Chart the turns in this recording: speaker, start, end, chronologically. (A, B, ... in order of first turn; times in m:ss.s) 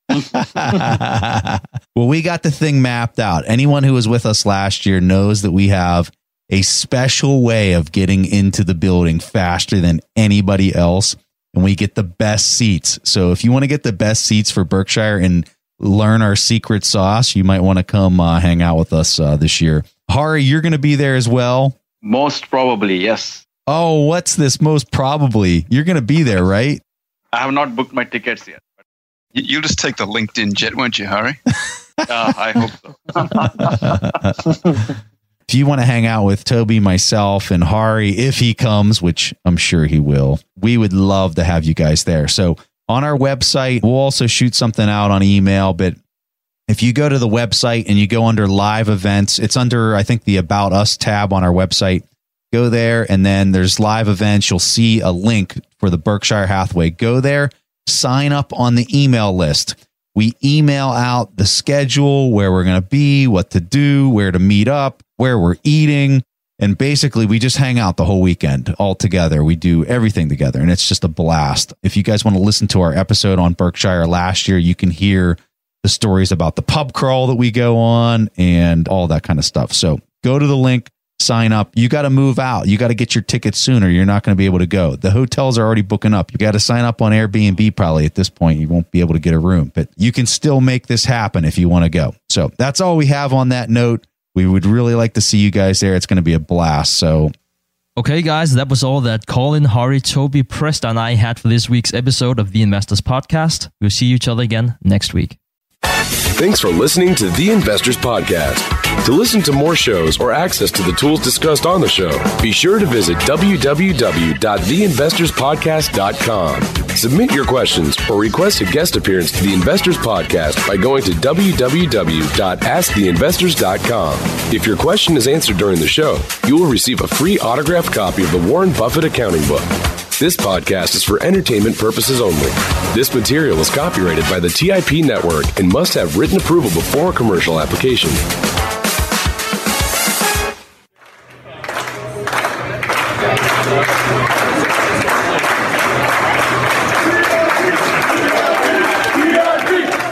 0:00.2-0:21.8 A
0:22.0-0:23.4 B
0:23.7-0:26.8 A
0:27.3-0:28.6 B
0:29.3-0:31.4 C
0:32.1-0:33.6 B
0:33.6-0:34.5 A
0:35.5-0:46.0 A
0:46.7-1:37.3 A
1:38.0-1:45.4 D
1:46.4-2:18.2 E